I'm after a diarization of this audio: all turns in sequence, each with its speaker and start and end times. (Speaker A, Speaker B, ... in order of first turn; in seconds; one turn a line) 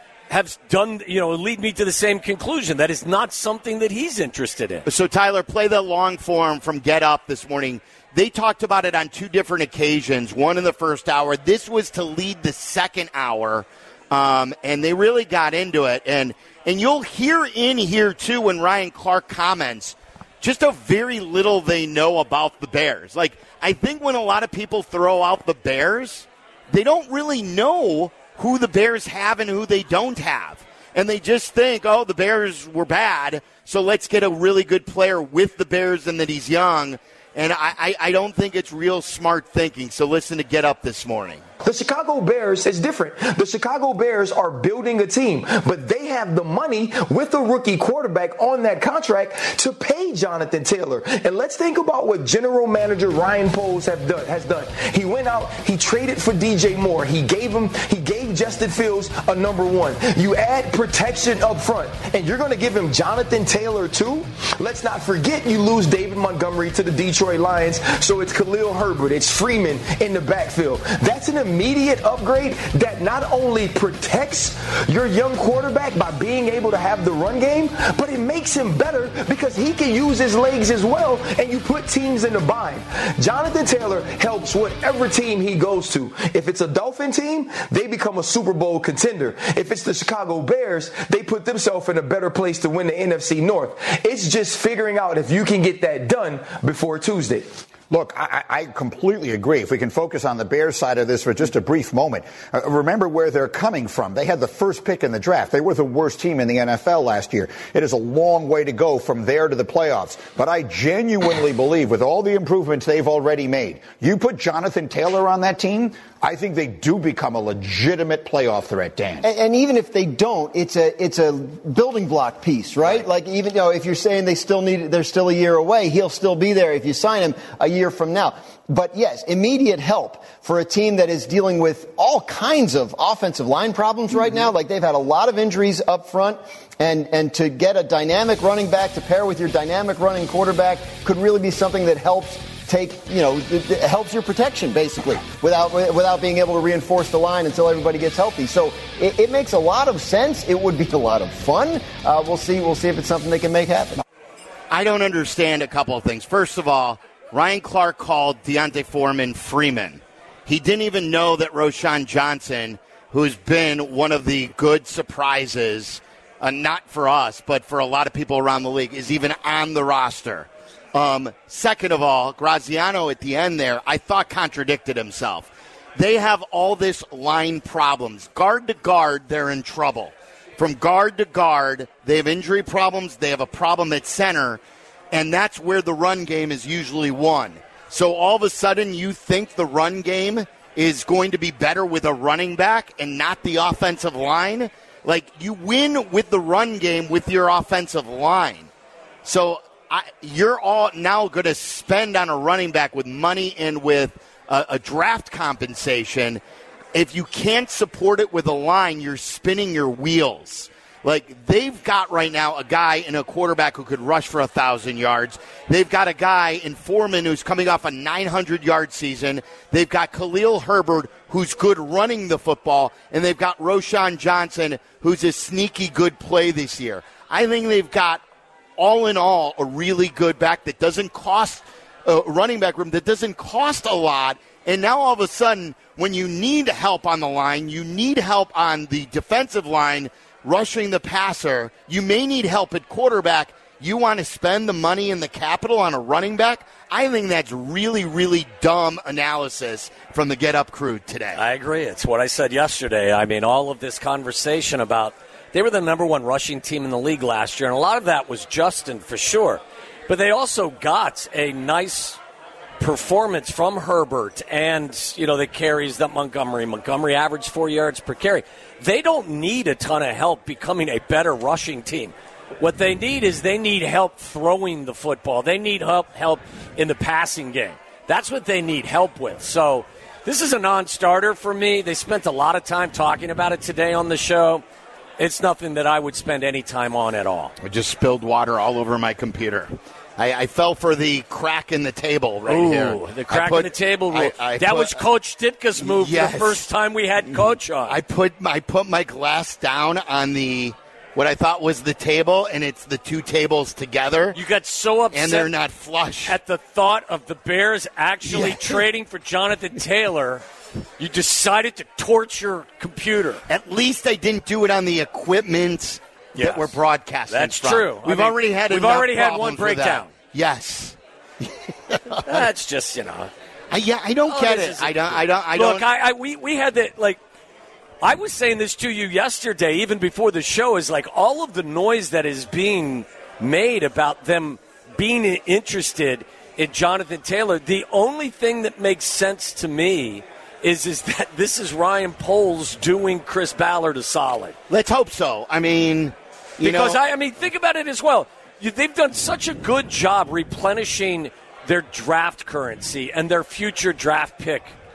Speaker A: 0.3-4.8
Speaker B: 4.8-41.4
Speaker C: 41.6-97.5
Speaker D: 97.9-119.2
Speaker E: 119.2-154.0
Speaker B: 154.7-184.6
Speaker B: 185.1-198.7
Speaker B: 199.2-206.4
Speaker B: 206.9-228.2
Speaker B: 228.8-251.4
Speaker A: 251.3-262.2
Speaker A: 262.8-284.6
Speaker A: 285.2-287.5
Speaker B: 287.6-295.0
Speaker A: 292.5-298.0
Speaker B: 295.8-296.6
Speaker B: 297.9-304.4
Speaker A: 304.3-305.5
Speaker B: 305.1-306.4
Speaker A: 306.2-310.4
Speaker B: 308.2-308.8
Speaker A: 311.0-313.4
Speaker B: 313.5-322.4
Speaker A: 316.4-316.8
Speaker A: 317.3-320.1
Speaker A: 322.1-323.3
Speaker B: 323.7-325.9
Speaker A: 324.3-327.2
Speaker A: 328.0-344.6
Speaker B: 344.7-347.0
Speaker A: 346.6-354.7